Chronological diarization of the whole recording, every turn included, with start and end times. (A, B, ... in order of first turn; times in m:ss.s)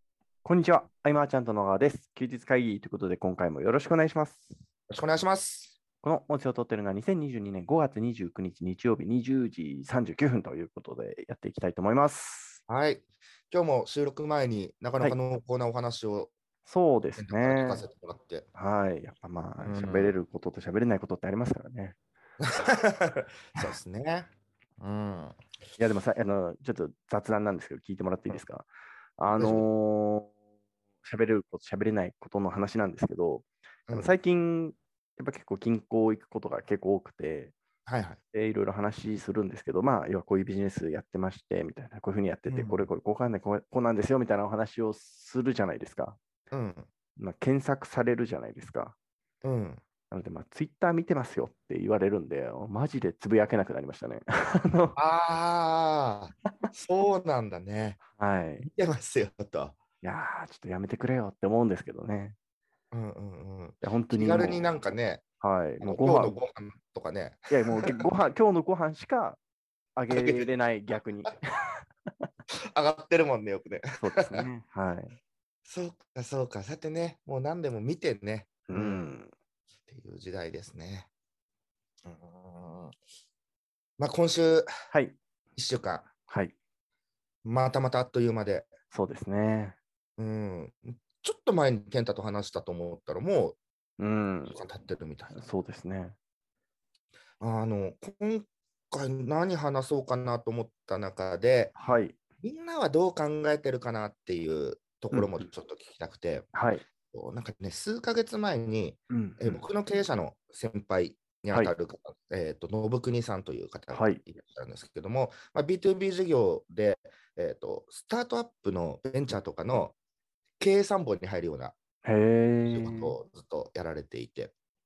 0:00.4-0:04.6 A
0:04.9-0:05.7 B
0:06.0-0:12.6 A
0:12.7-0:16.3 B
0:16.6-0:17.8 A
0:17.2-0:18.5 B
0:18.5-0:22.0 A
0:19.6-0:20.2 B
0:22.4-0:25.4 B
0:25.8-0:30.3 A
0:29.4-0:29.7 B
0:31.0-0:37.5 A
0:33.9-0:34.1 B
0:37.8-0:38.2 B
0:38.3-0:46.2 A
0:42.5-0:42.9 B
0:46.5-0:46.9 B
0:47.2-0:48.9 A
0:49.4-0:49.8 B
0:50.1-0:55.0 A
0:55.0-0:58.0 B
0:58.2-0:58.7 A
0:58.6-0:59.8 B
1:00.0-1:02.4 A
1:02.9-1:05.2 B
1:03.8-1:04.7 A
1:05.4-1:06.4 A
1:05.8-1:08.0 B
1:07.5-1:09.4 A
1:10.0-1:11.8 A
1:10.1-1:10.5 B
1:12.7-1:14.4 B
1:14.0-1:15.2 A
1:15.6-1:19.0 B
1:18.7-1:19.3 A
1:19.9-1:21.1 B
1:22.0-1:22.9 B
1:24.0-1:24.7 B
1:24.9-1:25.2 A
1:25.6-1:26.1 B
1:26.3-1:26.5 A
1:27.4-1:28.7 B
1:28.9-1:29.8 A
1:30.2-1:33.6 B
1:34.0-1:34.6 A
1:34.5-1:35.4 B
1:35.3-1:36.2 A
1:37.4-1:41.7 B
1:41.8-1:42.2 A
1:42.4-1:46.5 B
1:46.5-1:46.8 A
1:47.1-1:59.9 B
1:49.1-1:49.6 A
1:53.9-1:54.2 A
2:00.6-2:01.7 B
2:02.0-2:03.2 A
2:02.7-2:04.5 B